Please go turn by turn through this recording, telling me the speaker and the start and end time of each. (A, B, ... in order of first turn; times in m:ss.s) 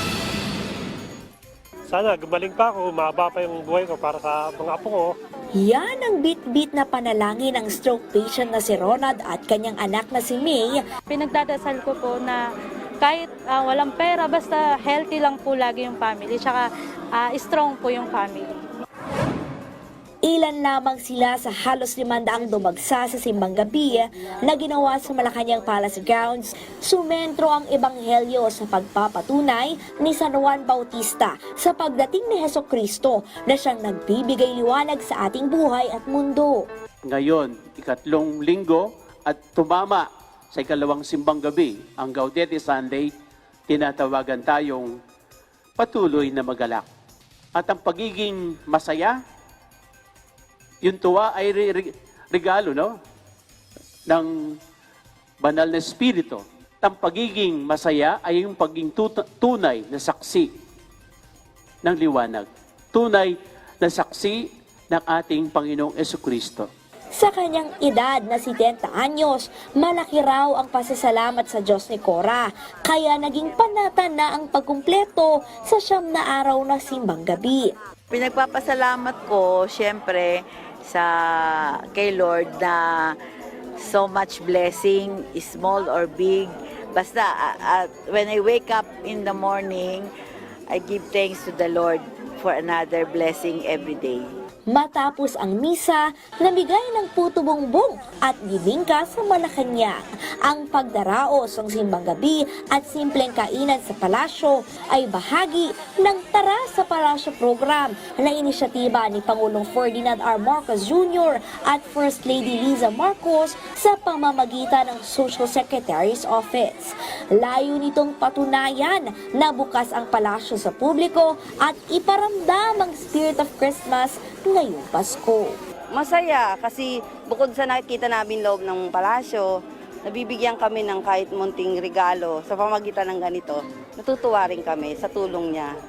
0:01.9-0:05.1 A
0:05.6-0:10.8 B
0:11.1-0:12.4 C
0:13.0-0:18.5 C
0:20.2-0:36.7 B
0:37.0-0:43.1 D
0:43.7-0:44.9 D
0:45.8-0:46.9 D
0:47.6-0:49.1 D
0:50.8-0:52.9 D
0:54.1-0:54.6 D
0:55.4-1:00.5 D
1:01.8-1:04.4 D
1:04.9-1:06.7 D
1:07.2-1:17.8 B
1:18.1-1:23.2 E
1:23.8-1:30.1 E
1:30.7-1:34.3 E
1:34.7-2:05.6 B
2:05.9-2:15.8 F